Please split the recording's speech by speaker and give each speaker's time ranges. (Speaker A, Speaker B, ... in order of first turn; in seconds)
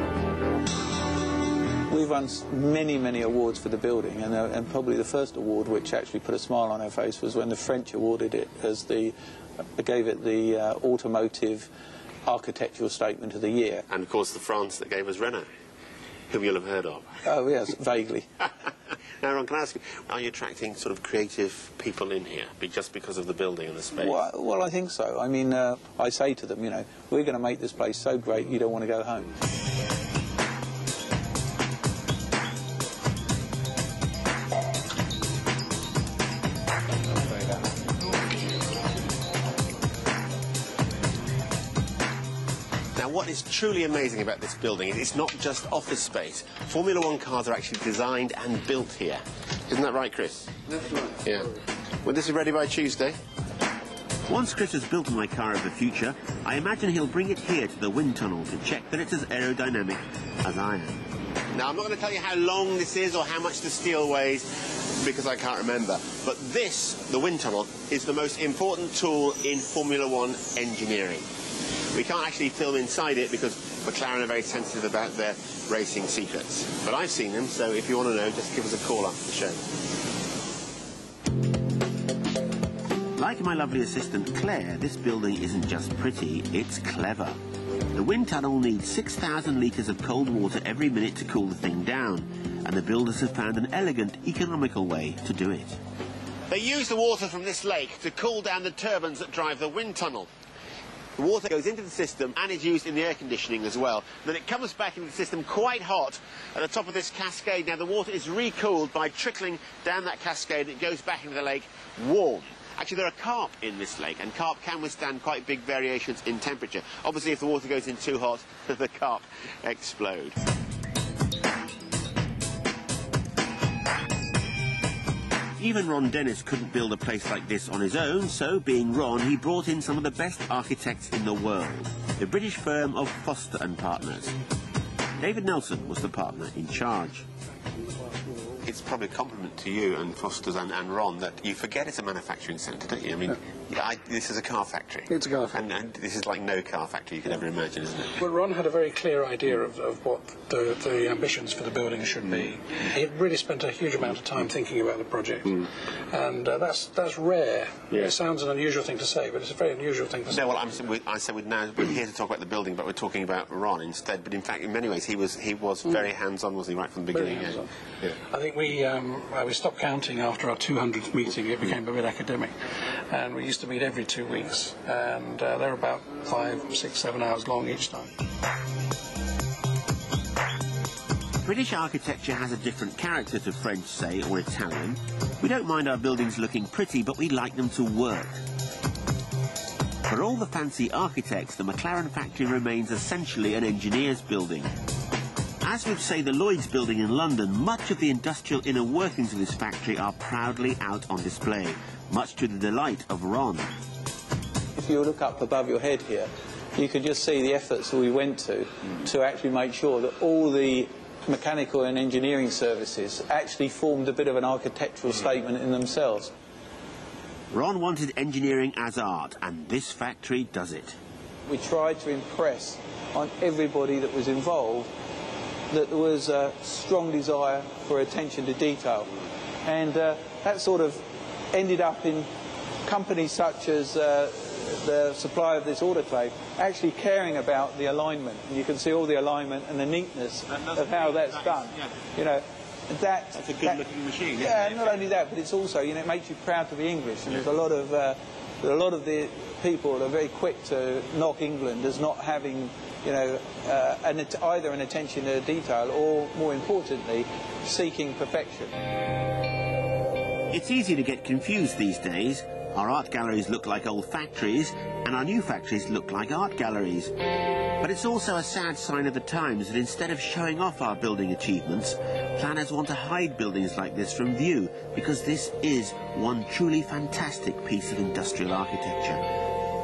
Speaker A: 1.9-9.1, 9.8-11.7, 12.2-13.9, 17.2-18.3, 23.9-29.3, 204.8-216.3, 221.5-224.9, 225.7-229.1, 229.6-232.3, 232.8-243.8, 244.4-258.8
Speaker B: 13.9-15.5, 16.3-17.2, 19.2-24.2, 43.0-53.2, 54.3-61.0, 61.5-71.2, 71.9-79.7, 83.2-87.4, 87.9-95.8, 96.5-100.3, 101.2-120.4, 125.6-134.4, 135.2-137.2, 138.6-148.2, 160.3-167.6, 181.4-188.4, 190.1-194.7, 195.6-203.7, 217.5-220.9, 240.5-241.9, 243.3-245.2, 260.5-267.1, 267.8-279.2
Speaker C: 137.9-138.3, 145.1-145.6, 148.2-160.6, 167.1-167.7, 168.3-172.5, 173.1-178.1